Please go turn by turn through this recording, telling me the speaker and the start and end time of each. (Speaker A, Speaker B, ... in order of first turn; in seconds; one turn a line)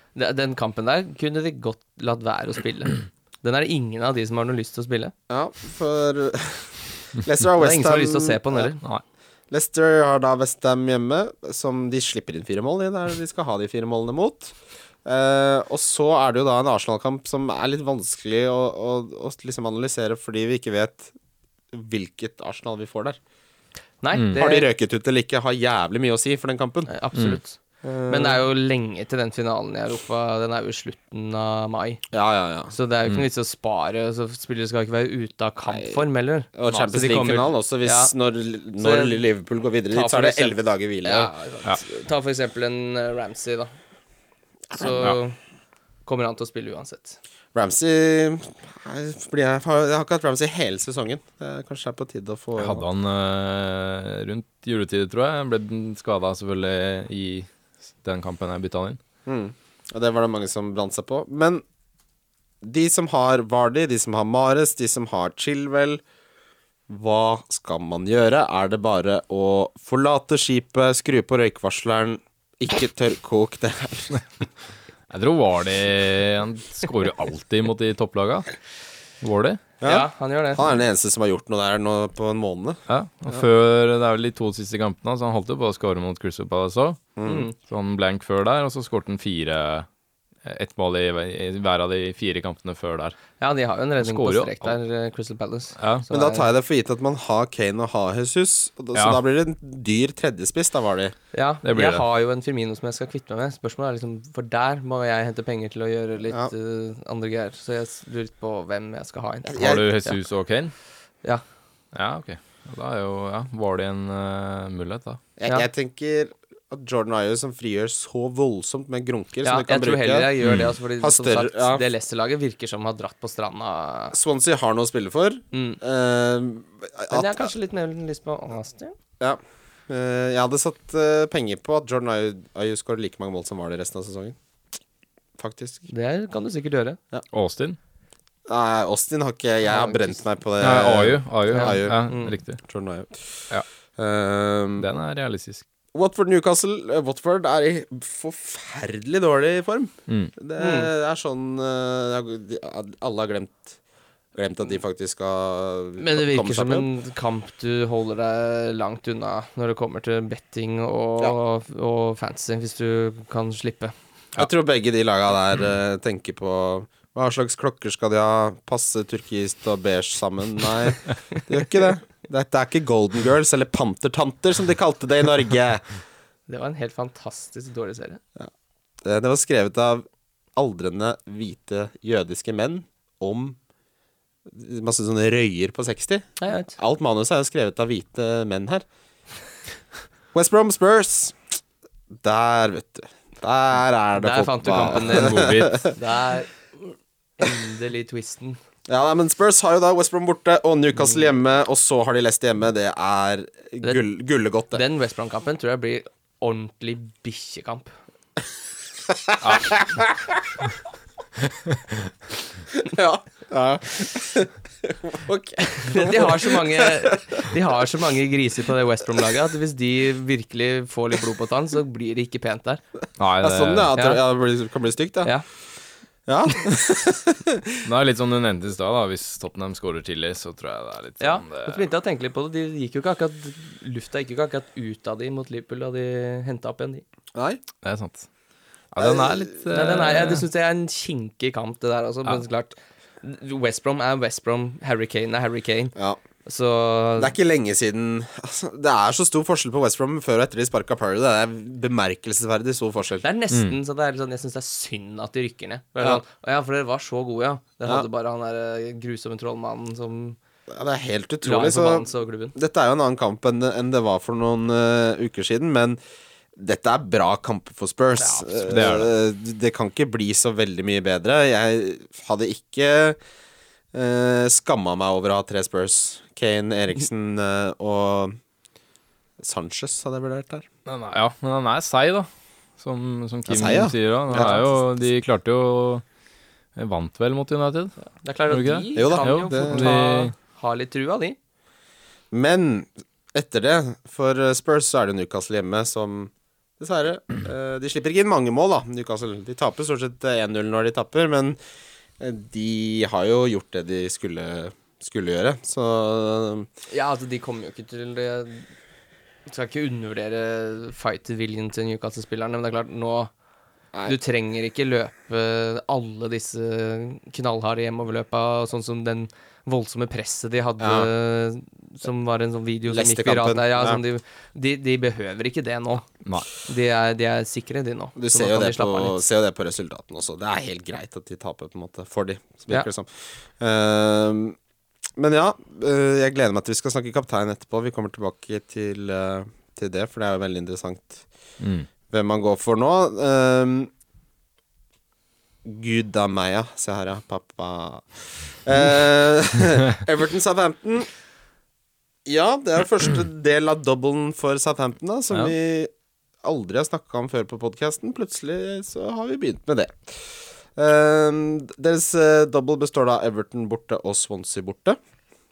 Speaker A: 0.1-5.1
Speaker B: 5.3-8.7
Speaker A: 7.6-8.8
Speaker B: 9.5-21.1
Speaker B: 21.7-23.2
Speaker A: 24.0-24.7
Speaker C: 24.1-24.4
Speaker B: 24.4-26.9
Speaker A: 26.9-32.0
Speaker C: 27.1-27.4
Speaker B: 27.8-28.4
Speaker B: 32.1-32.7
Speaker A: 32.7-38.1
Speaker B: 35.7-36.0
Speaker B: 36.5-41.3
Speaker A: 38.8-39.2
Speaker A: 39.9-43.7
Speaker B: 44.7-45.1
Speaker A: 44.7-45.4
Speaker A: 46.1-47.2
Speaker B: 47.5-52.8
Speaker C: 52.6-57.5
Speaker C: 58.0-59.0
Speaker B: 59.3-61.6
Speaker B: 62.6-66.0
Speaker B: 66.9-74.2
Speaker C: 75.1-78.5
Speaker C: 79.2-79.6
Speaker B: 79.8-83.4
Speaker A: 79.8-80.6
Speaker C: 82.9-87.0
Speaker B: 87.2-87.5
Speaker A: 87.2-87.5
Speaker C: 87.6-89.9
Speaker C: 90.4-93.2
Speaker A: 93.4-96.5
Speaker C: 94.0-94.7
Speaker C: 95.8-96.0
Speaker B: 96.1-101.1
Speaker C: 99.0-99.2
Speaker A: 101.3-109.6
Speaker C: 101.6-102.0
Speaker B: 109.5-109.9
Speaker C: 109.6-110.7
Speaker C: 111.9-115.2
Speaker B: 115.4-120.3
Speaker A: 119.4-124.2
Speaker C: 120.4-120.7
Speaker B: 121.0-121.8
Speaker B: 124.1-127.5
Speaker A: 125.5-125.8
Speaker A: 127.1-128.9
Speaker B: 129.2-134.4
Speaker B: 135.4-135.9
Speaker A: 135.9-137.0
Speaker C: 137.3-137.8
Speaker B: 138.5-142.1
Speaker A: 139.7-140.2
Speaker C: 140.6-142.6
Speaker A: 141.5-142.4
Speaker B: 142.6-143.2
Speaker B: 144.0-144.9
Speaker C: 144.8-145.7
Speaker B: 145.9-153.8
Speaker A: 150.6-150.9
Speaker B: 154.3-156.9
Speaker A: 156.0-163.9
Speaker B: 164.3-175.8
Speaker A: 176.5-178.2
Speaker B: 179.0-180.1
Speaker B: 180.6-183.6
Speaker B: 184.5-188.8
Speaker A: 186.4-186.8
Speaker B: 190.3-191.4
Speaker B: 192.2-195.9
Speaker A: 194.2-198.6
Speaker C: 194.9-195.8
Speaker B: 198.9-204.8
Speaker A: 204.7-207.9
Speaker B: 209.2-210.4
Speaker C: 209.4-209.9
Speaker B: 212.7-217.5
Speaker A: 215.9-222.8
Speaker C: 223.2-223.9
Speaker B: 223.4-225.3
Speaker A: 223.9-224.2
Speaker B: 226.3-227.9
Speaker C: 227.8-231.8
Speaker A: 231.2-237.0
Speaker B: 237.3-237.6
Speaker C: 237.8-238.3
Speaker C: 238.9-240.4
Speaker B: 239.0-239.6
Speaker A: 239.7-245.9
Speaker B: 246.0-246.2
Speaker A: 246.4-247.3
Speaker B: 247.2-253.2
Speaker A: 253.2-260.4
Speaker B: 260.7-266.0
Speaker A: 261.4-262.6
Speaker B: 266.6-273.2
Speaker A: 268.2-268.9
Speaker C: 268.7-269.1
Speaker B: 273.9-278.4
Speaker B: 279.4-280.6
Speaker C: 280.9-282.3
Speaker C: 282.8-286.0
Speaker B: 283.5-285.1
Speaker C: 286.8-287.9
Speaker A: 288.2-291.4
Speaker C: 288.5-290.3
Speaker B: 288.9-290.0
Speaker B: 292.3-301.6
Speaker B: 302.2-306.7
Speaker A: 306.9-308.7
Speaker A: 309.5-313.3
Speaker A: 314.1-326.1
Speaker B: 320.8-321.1
Speaker B: 322.9-324.0
Speaker A: 326.6-329.2
Speaker B: 328.2-334.6
Speaker B: 335.2-341.2
Speaker C: 341.6-341.9
Speaker B: 342.1-343.9
Speaker B: 345.6-351.1
Speaker B: 352.3-355.9
Speaker B: 356.4-365.0